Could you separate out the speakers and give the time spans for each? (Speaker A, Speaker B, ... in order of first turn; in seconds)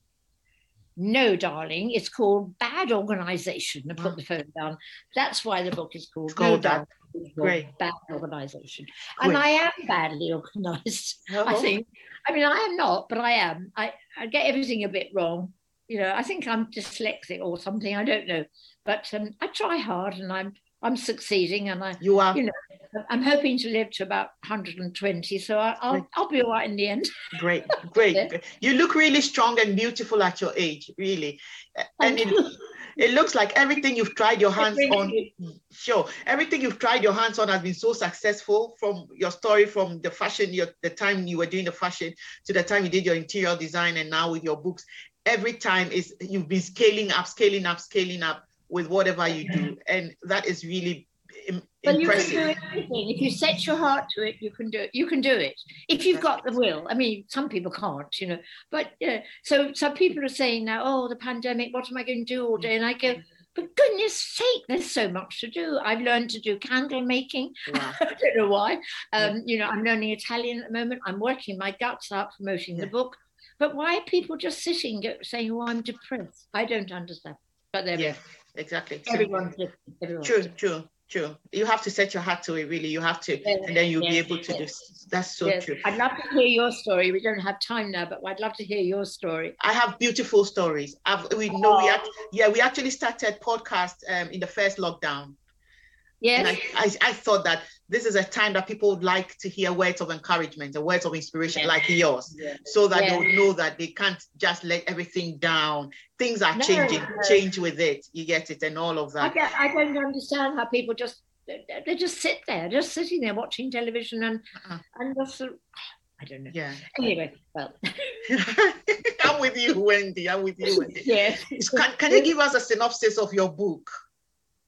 Speaker A: 1.0-27.1, 27.7-28.3, 32.0-32.6, 34.6-35.3, 51.9-78.2, 79.1-80.5, 83.4-84.6, 85.4-89.6, 91.5-92.0, 96.2-96.6, 102.3-103.4, 106.5-107.4, 109.2-118.2, 120.6-122.3
Speaker B: 6.3-6.8, 7.4-7.7, 11.3-11.7, 22.0-22.4, 27.3-52.4, 56.1-56.4, 67.7-68.0, 78.0-79.3, 80.2-85.8, 89.6-95.4, 96.4-109.4, 116.5-116.8, 118.3-123.9